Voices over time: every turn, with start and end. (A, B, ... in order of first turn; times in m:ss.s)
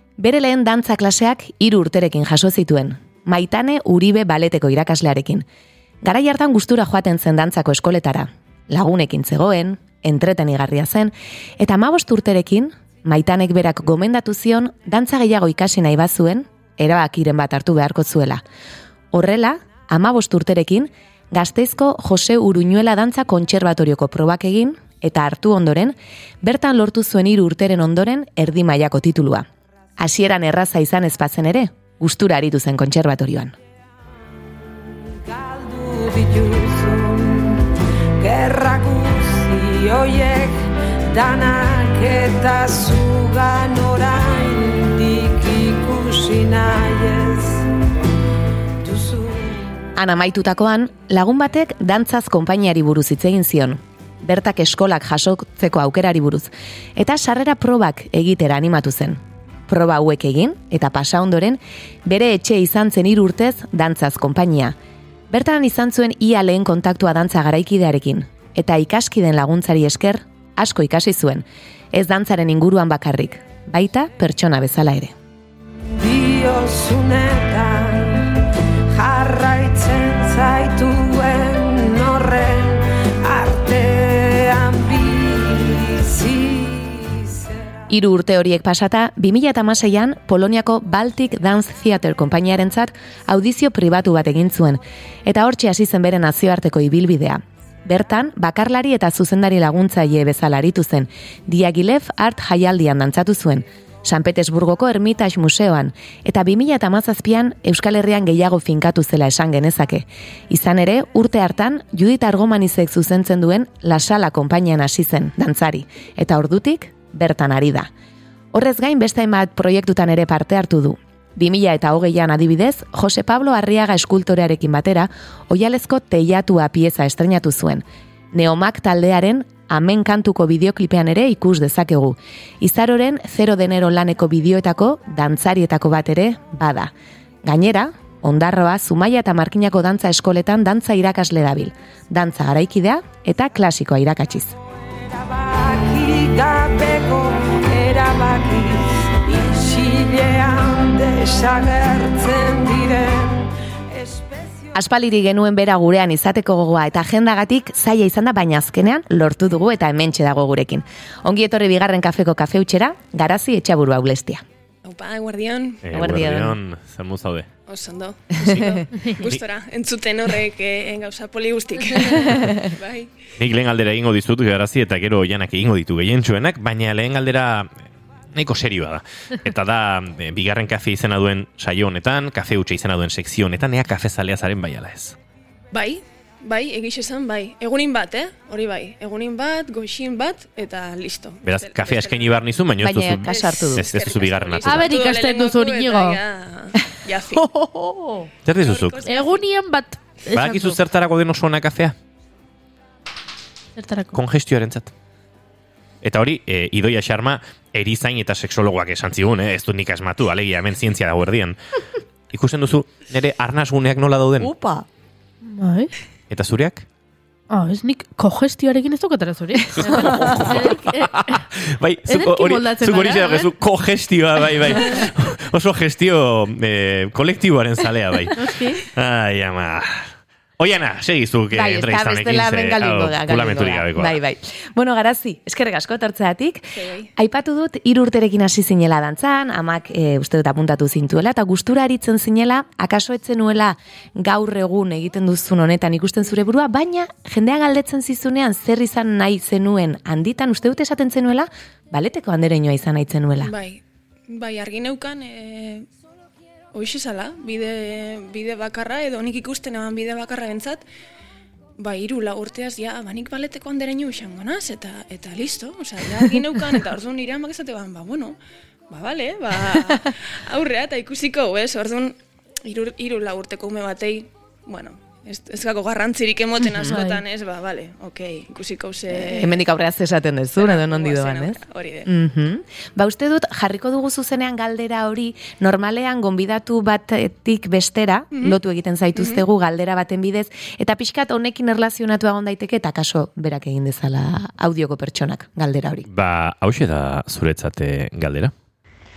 0:00.2-0:05.4 A
0:06.0-0:18.4 A
0:19.1-0:29.5 A
0:30.0-0:33.6 A
0:35.2-0:47.7 B
0:48.8-0:49.8 B
0:50.0-1:04.8 A
1:05.3-1:15.2 A
1:16.0-1:27.6 B
1:27.9-1:57.9 A
1:58.5-2:16.9 A
2:17.4-2:24.6 A
2:24.9-2:34.7 B
2:34.7-2:44.4 A
2:44.8-2:45.8 C
2:45.8-2:47.5 D
2:45.9-2:46.6 A
2:47.7-2:53.1 C
2:53.4-2:57.7 D
2:58.3-3:05.2 D
3:05.7-3:12.4 C
3:11.4-3:14.9 D
3:12.8-3:13.9 A
3:13.3-3:17.5 C
3:14.6-3:16.2 E
3:17.4-3:18.3 E
3:18.5-3:19.0 D
3:18.6-3:19.4 C
3:19.0-3:20.8 E
3:20.3-3:21.9 D
3:23.8-3:24.2 E
3:24.1-3:24.9 D
3:26.0-3:31.6 D
3:32.3-3:34.5 D
3:35.4-3:35.9 E
3:36.3-3:36.9 D
3:37.5-3:41.4 E
3:39.8-3:54.2 D
3:42.1-3:43.5 E
3:44.8-3:45.1 E
3:48.3-3:48.8 E
3:51.5-4:13.5 A
3:56.7-3:57.1 C
4:13.4-4:15.9 C
4:16.7-4:20.8 C
4:21.8-4:28.4 C
4:28.9-4:39.6 C
4:36.9-4:37.2 E
4:39.2-4:56.1 A
4:40.6-4:42.1 C
4:49.2-4:49.4 C
4:56.1-4:58.5 D